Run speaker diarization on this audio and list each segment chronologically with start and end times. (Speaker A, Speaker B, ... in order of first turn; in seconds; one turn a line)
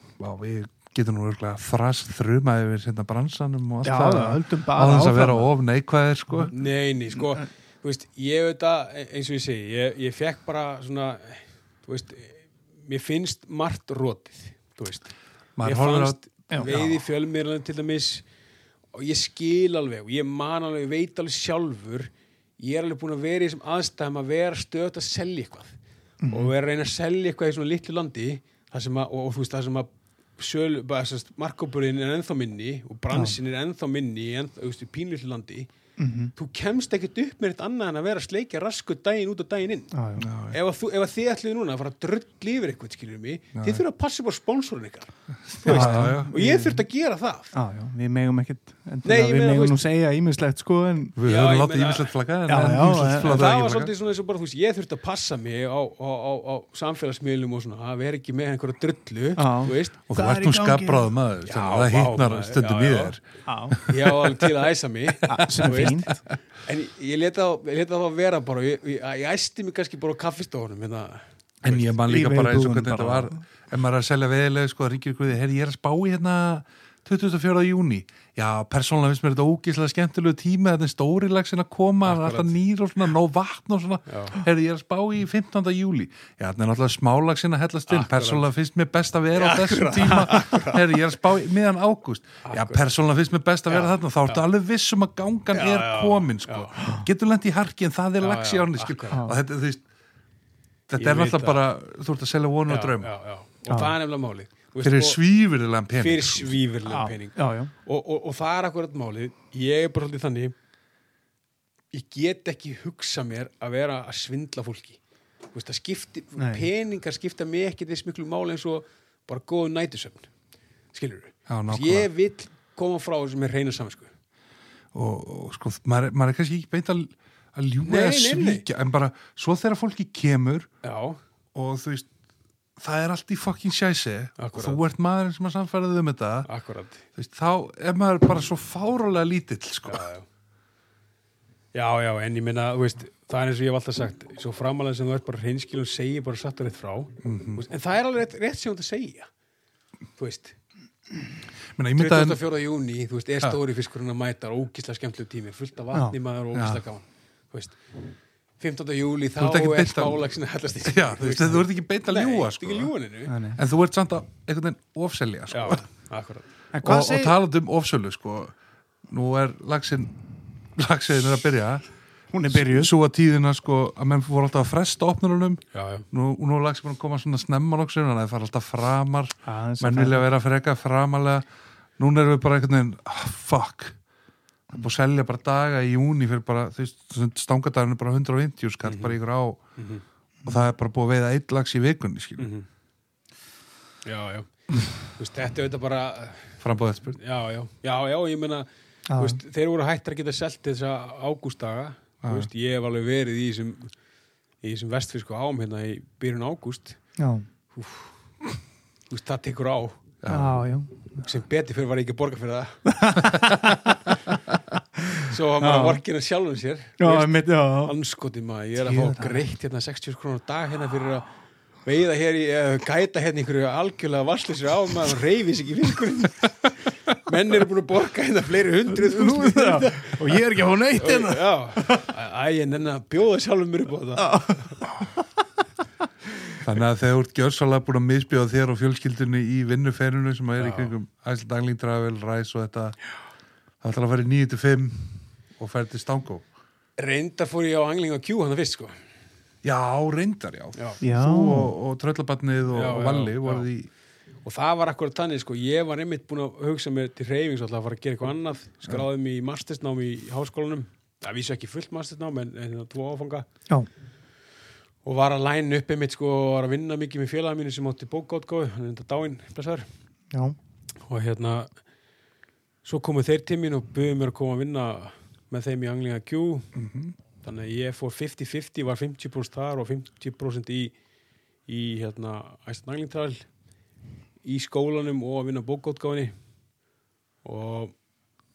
Speaker A: 0.2-6.5
Speaker B: 3.8-5.5
Speaker C: 6.5-18.3
Speaker A: 15.6-17.0
Speaker C: 18.9-25.8
Speaker B: 26.2-26.5
Speaker C: 26.3-35.7
Speaker B: 36.0-36.3
Speaker C: 36.4-40.0
Speaker B: 39.9-40.3
Speaker A: 40.2-40.6
Speaker C: 40.5-47.5
Speaker A: 43.5-43.8
Speaker A: 45.5-46.7
Speaker B: 45.7-46.7
Speaker B: 47.5-51.1
Speaker C: 49.0-49.8
Speaker A: 51.1-53.9
Speaker C: 51.2-52.1
Speaker B: 52.5-53.4
Speaker C: 53.2-60.0
Speaker B: 59.4-61.1
Speaker A: 60.1-64.4
Speaker C: 61.5-63.2
Speaker B: 63.5-63.8
Speaker C: 63.9-72.0
Speaker B: 65.3-66.2
Speaker A: 65.6-65.9
Speaker A: 71.6-99.8
Speaker B: 72.1-73.4
Speaker C: 82.0-82.6
Speaker C: 84.1-84.4
Speaker C: 87.9-88.5
Speaker C: 89.3-91.1
Speaker C: 92.4-92.9
Speaker C: 93.7-94.4
Speaker C: 95.5-96.8
Speaker B: 96.8-97.1
Speaker C: 98.2-99.2
Speaker A: 100.9-103.1
Speaker C: 101.0-101.6
Speaker C: 102.7-105.2
Speaker B: 103.7-103.9
Speaker A: 104.8-106.6
Speaker C: 106.0-110.5
Speaker B: 106.8-107.7
Speaker C: 111.9-115.0
Speaker C: 115.5-120.3
Speaker B: 116.4-116.7
Speaker C: 120.9-124.1
Speaker A: 121.5-122.1
Speaker A: 124.9-130.7
Speaker C: 127.8-128.7
Speaker C: 130.8-131.2
Speaker A: 131.5-132.1
Speaker A: 132.8-136.5
Speaker C: 134.4-134.8
Speaker C: 136.5-137.1
Speaker A: 137.1-140.1
Speaker C: 139.8-140.3
Speaker C: 141.7-149.3
Speaker A: 147.2-147.6
Speaker C: 150.2-150.6
Speaker A: 151.8-152.4
Speaker C: 152.0-157.8
Speaker A: 156.5-156.8
Speaker C: 158.6-163.3
Speaker A: 159.4-160.2
Speaker A: 160.8-162.9
Speaker B: 163.3-163.6
Speaker A: 163.5-165.8
Speaker C: 165.5-166.5
Speaker B: 166.7-167.3
Speaker A: 166.8-168.6
Speaker A: 169.1-170.2
Speaker A: 170.7-171.9
Speaker B: 172.3-172.9
Speaker A: 172.5-181.5
Speaker C: 175.7-176.1
Speaker B: 179.5-180.3
Speaker A: 182.0-184.0
Speaker A: 184.7-189.8
Speaker C: 188.8-189.2
Speaker C: 189.8-190.0
Speaker A: 190.4-192.5
Speaker C: 192.4-192.7
Speaker C: 194.1-196.6
Speaker A: 196.6-197.2
Speaker C: 197.2-203.9
Speaker B: 199.1-199.4
Speaker A: 202.2-202.5
Speaker C: 204.6-207.1
Speaker B: 207.2-207.5
Speaker C: 207.7-208.3
Speaker C: 209.1-210.0
Speaker A: 210.2-210.6
Speaker B: 210.3-211.3
Speaker C: 211.2-212.9
Speaker B: 212.9-213.8
Speaker A: 213.3-213.8
Speaker C: 215.3-221.3
Speaker B: 215.6-216.0
Speaker B: 217.0-218.0
Speaker B: 218.8-219.4
Speaker C: 221.8-226.7
Speaker C: 227.2-230.3
Speaker B: 228.9-232.0
Speaker C: 231.0-234.8
Speaker B: 234.3-235.1
Speaker A: 236.6-243.2
Speaker C: 240.6-240.9
Speaker A: 243.8-246.5
Speaker C: 247.0-249.0
Speaker A: 249.6-253.9
Speaker C: 250.8-251.0
Speaker B: 251.0-251.8
Speaker C: 252.7-253.7
Speaker C: 254.4-263.5
Speaker C: 265.0-269.9
Speaker C: 271.1-271.7
Speaker C: 272.8-276.7
Speaker A: 276.8-277.1
Speaker C: 277.4-280.9
Speaker C: 281.7-283.5
Speaker C: 284.4-286.4
Speaker C: 287.4-287.9